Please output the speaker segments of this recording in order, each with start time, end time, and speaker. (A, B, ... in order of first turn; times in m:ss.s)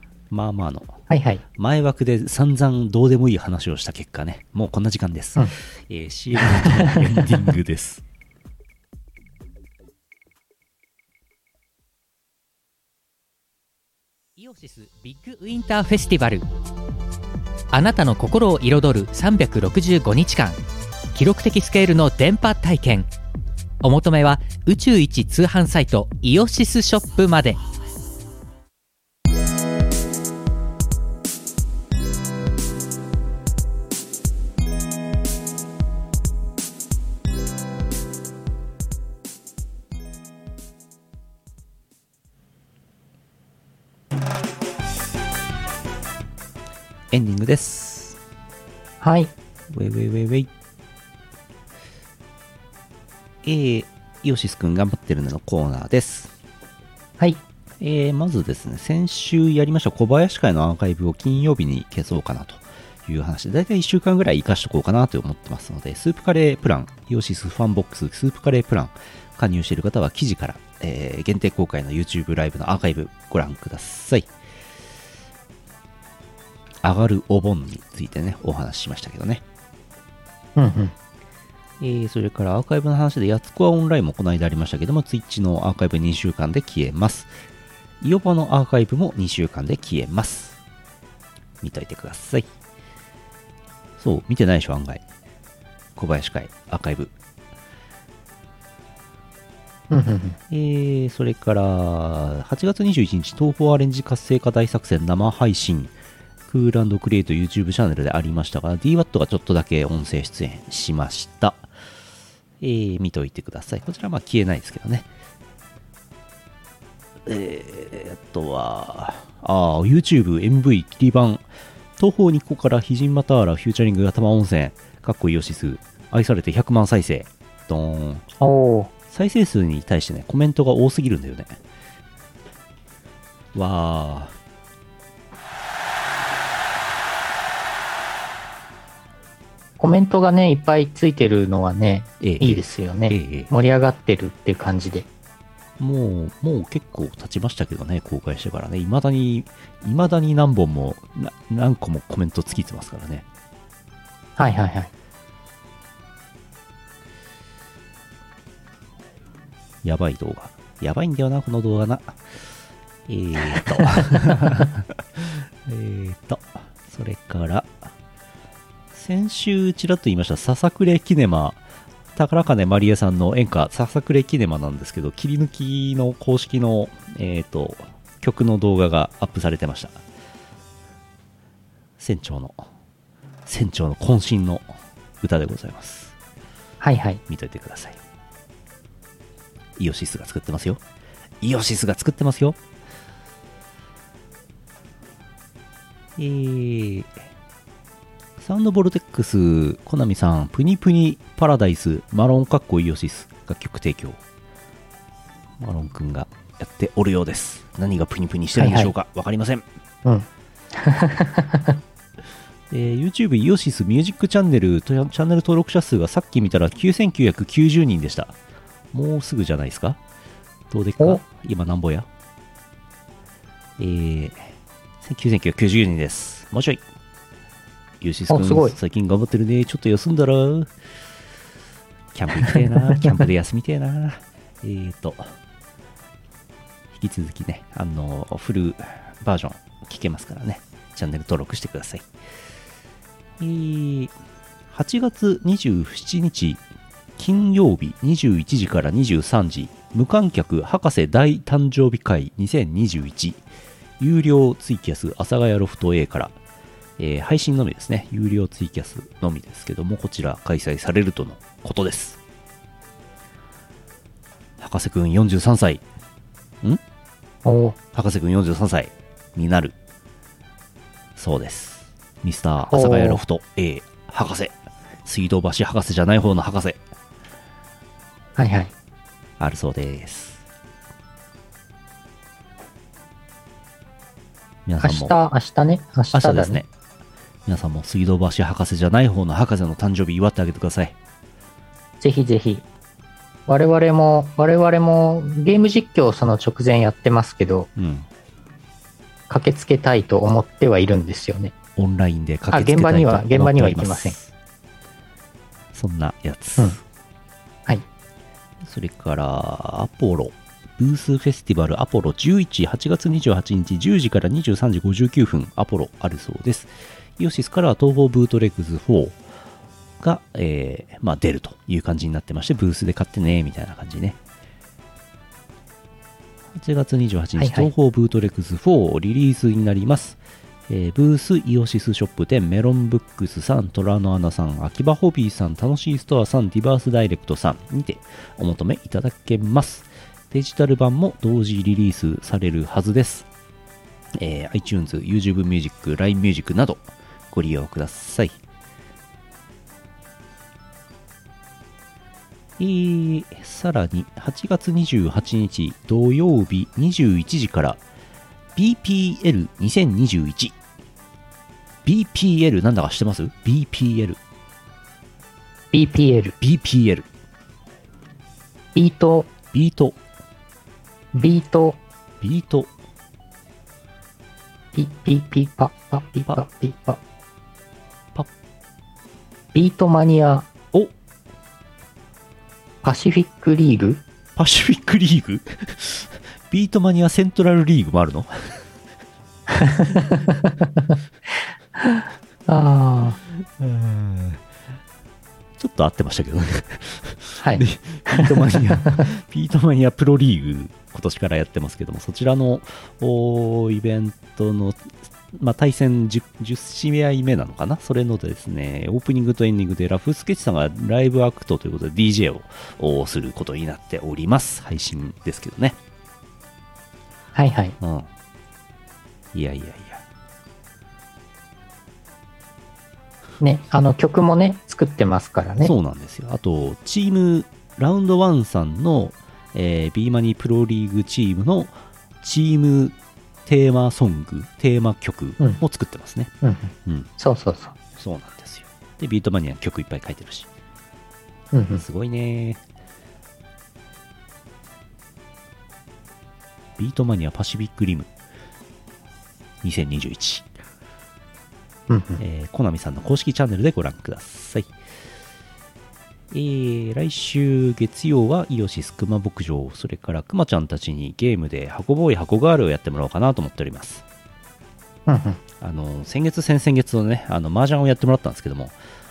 0:00.3-0:01.0 A
0:01.1-0:01.4 B
0:01.6-0:08.0 A
0:06.6-0:07.2 B
0:14.4-0:16.4 C
0:17.7-0:20.6 C
0:21.1-0:23.1 C
0:23.8-0:27.6 C
0:47.1-0:48.2 A
0:49.0-0:49.3 B
0:49.7-0:50.5 A
0:53.4-0:56.3 A
0:57.8-1:14.3 A
1:16.8-1:19.4 A
1:20.6-1:20.9 B
1:21.8-1:27.3 A
1:28.0-1:30.6 A
1:31.6-1:32.5 A
1:34.0-1:35.0 A
1:36.0-1:37.1 A
1:39.9-1:40.4 B
1:40.5-1:45.9 A
1:46.5-1:51.7 A
1:52.6-1:55.1 A
1:57.2-2:01.4 A
2:02.0-2:08.2 A
2:08.4-2:08.9 B
2:09.1-2:11.6 A
2:13.5-2:14.3 A
2:19.8-2:25.1 B
2:22.2-2:23.5 A
2:25.8-2:33.2 A
2:34.4-2:34.9 B
2:39.8-2:42.2 A
2:43.1-2:47.8 A
2:48.9-2:51.6 A
2:52.1-3:00.0 A
3:02.0-3:02.6 A
3:03.4-3:04.7 A
3:05.2-3:06.1 A
3:06.8-3:07.2 B
3:07.3-3:08.0 A
3:09.8-3:10.8 A
3:11.4-3:12.6 A
3:16.2-3:17.1 A
3:18.4-3:24.2 A
3:25.6-3:29.6 A
3:28.6-3:28.9 B
3:30.0-3:31.8 B
3:32.7-3:38.4 A
3:38.9-3:40.0 A
3:40.7-3:42.1 A
3:43.8-3:46.8 A
3:48.0-3:50.7 A
3:48.3-3:48.8 B
3:52.1-3:55.3 A
3:52.4-3:53.1 B
3:56.9-4:02.1 A
4:03.4-4:04.1 A
4:04.7-4:06.6 A
4:07.2-4:13.4 A
4:14.0-4:16.4 A
4:17.0-4:22.2 A
4:24.6-4:25.8 A
4:27.4-4:27.8 B
4:27.9-4:29.7 A
4:31.2-4:36.8 A
4:32.7-4:33.2 B
4:38.4-4:38.7 B
4:39.4-4:40.4 A
4:44.6-4:45.1 A
4:44.8-4:46.6 B
4:46.1-4:46.7 A
4:47.4-4:51.0 A
4:52.0-4:52.6 B
4:53.5-4:57.7 B
4:57.8-4:58.1 A
4:59.3-5:01.5 B
5:01.8-5:04.3 A
5:02.5-5:04.2 B
5:05.7-5:06.8 A
5:08.6-5:19.2 A
5:20.0-5:24.2 A
5:26.6-5:43.3 A
5:27.4-5:27.7 B
5:44.2-5:48.4 A
5:52.6-5:57.8 A
5:58.6-6:00.5 A
6:01.8-6:04.2 A
6:05.7-6:06.3 B
6:06.4-6:07.1 A
6:08.7-6:09.3 B
6:09.5-6:10.0 A
6:11.1-6:11.8 B
6:12.2-6:12.7 A
6:14.7-6:17.0 B
6:19.5-6:20.5 B
6:22.8-6:24.0 B
6:24.4-6:28.6 A
6:29.5-6:30.9 B
6:31.8-6:33.2 B
6:33.6-6:34.4 A
6:35.6-6:55.8 A
6:37.4-6:38.8 B
6:57.3-6:57.8 B
6:57.8-6:58.1 A
6:59.3-7:00.0 A
7:03.4-7:05.7 B
7:05.6-7:16.3 A
7:16.4-7:17.7 B
7:16.8-7:17.1 A
7:18.0-7:20.5 A
7:21.5-7:21.8 B
7:21.7-7:22.6 A
7:26.8-7:28.1 A
7:29.6-7:30.5 A
7:31.9-7:32.2 B
7:32.2-7:34.7 A
7:36.3-7:44.0 A
7:45.1-7:45.4 B
7:45.6-7:48.7 A